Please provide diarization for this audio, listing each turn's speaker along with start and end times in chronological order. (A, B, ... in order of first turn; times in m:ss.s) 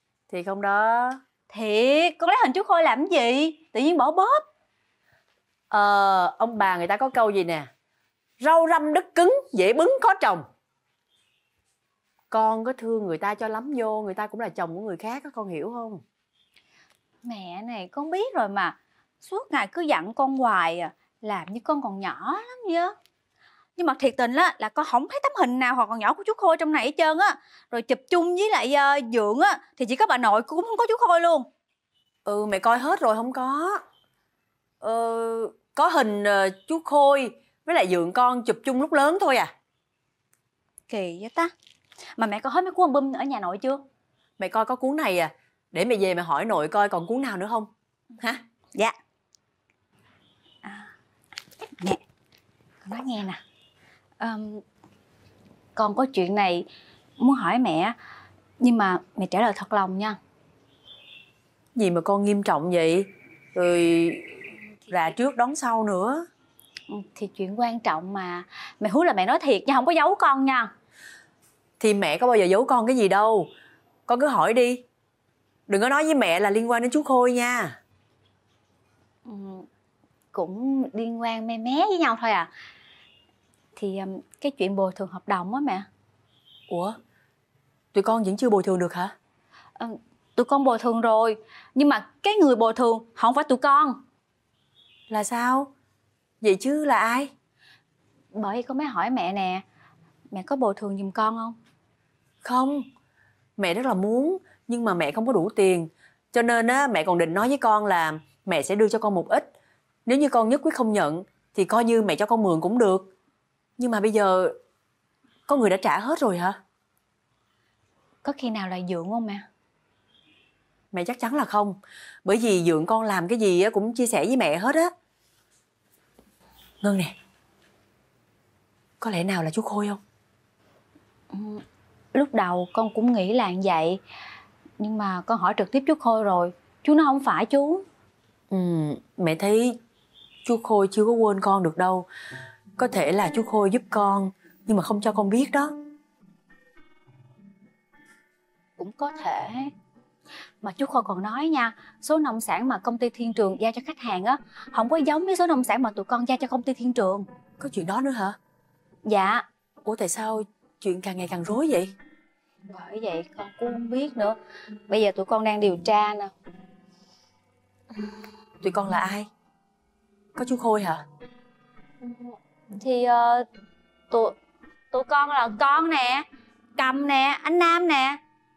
0:00.3-0:01.2 A
0:01.5-0:04.4 B
0:05.7-0:07.7 A
0:08.4-0:10.5 A
0:12.3-0:16.0 A
0:17.2-0:23.0 B
0:23.8-0:31.5 B
0:32.2-0:33.8 A
0:34.8-0:39.5 A
0:40.9-0:41.5 B
0:42.2-0:43.8 B
0:44.4-0:48.4 A
0:50.6-0:50.9 B
0:52.8-0:53.4 B
0:54.2-0:54.6 B
0:55.8-0:56.7 B
0:57.2-0:58.0 B
0:58.6-1:00.2 B
1:01.8-1:06.3 A
1:06.9-1:10.7 B
1:11.8-1:13.5 A
1:14.1-1:14.8 A
1:15.7-1:17.8 A
1:19.3-1:19.7 B
1:20.3-1:22.5 B
1:23.8-1:25.9 B
1:26.7-1:27.0 A
1:27.9-1:29.1 A
1:29.8-1:34.0 B
1:35.1-1:35.7 A
1:36.4-1:37.3 A
1:38.3-1:39.6 B
1:40.3-1:41.6 B
1:42.4-1:42.9 A
1:43.6-1:49.5 A
1:50.1-1:53.1 A
1:53.8-1:54.6 A
1:55.5-1:56.6 A
1:58.2-1:59.5 B
2:00.9-2:04.9 A
2:06.8-2:07.1 A
2:09.0-2:10.0 A
2:11.3-2:11.6 B
2:12.1-2:14.0 B
2:14.8-2:17.8 B
2:18.5-2:19.8 A
2:20.4-2:22.1 A
2:22.8-2:25.7 A
2:28.8-2:29.7 B
2:30.6-2:37.3 B
2:37.6-2:38.4 A
2:39.0-2:39.4 B
2:39.8-2:41.9 A
2:42.7-2:46.3 B
2:48.6-2:49.3 A
2:50.4-2:51.0 A
2:52.0-2:53.5 B
2:54.9-2:56.3 B
2:56.8-2:58.2 B